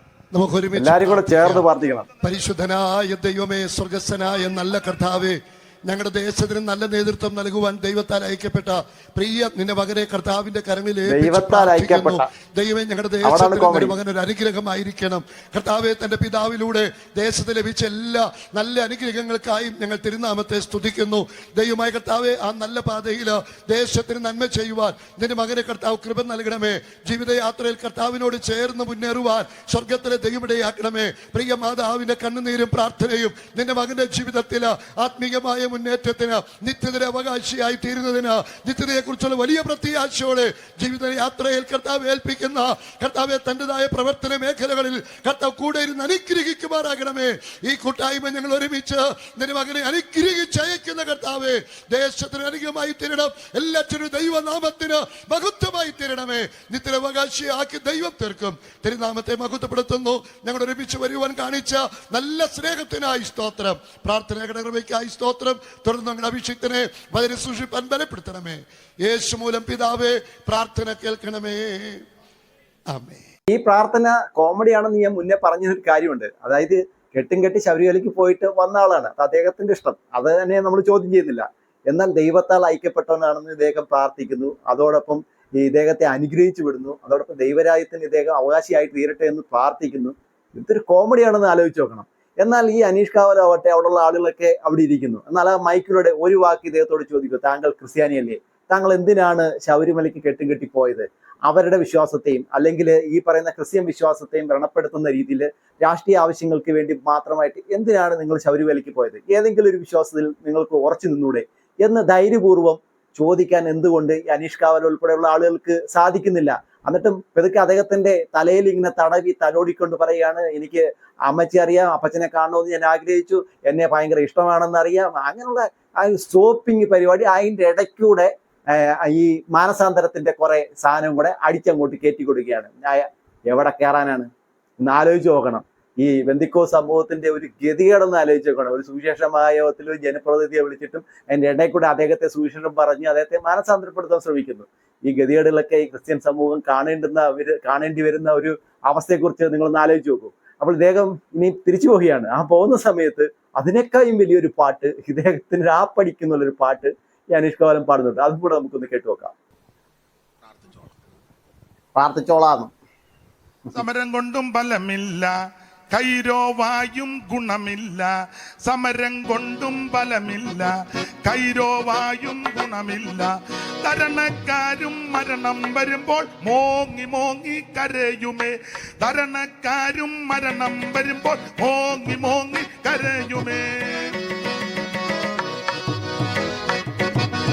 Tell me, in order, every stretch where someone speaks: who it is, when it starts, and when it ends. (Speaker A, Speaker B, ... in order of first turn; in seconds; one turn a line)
Speaker A: 0.3-1.6
Speaker B: 0.8-2.1
Speaker A: 2.2-72.0
Speaker B: 11.1-12.3
Speaker B: 13.2-13.9
Speaker A: 72.9-73.3
Speaker B: 73.5-134.3
Speaker B: 134.8-159.3
Speaker C: 160.4-161.0
Speaker B: 162.0-162.7
Speaker C: 163.7-165.3
Speaker C: 165.9-168.1
Speaker C: 168.6-170.7
Speaker C: 171.2-184.2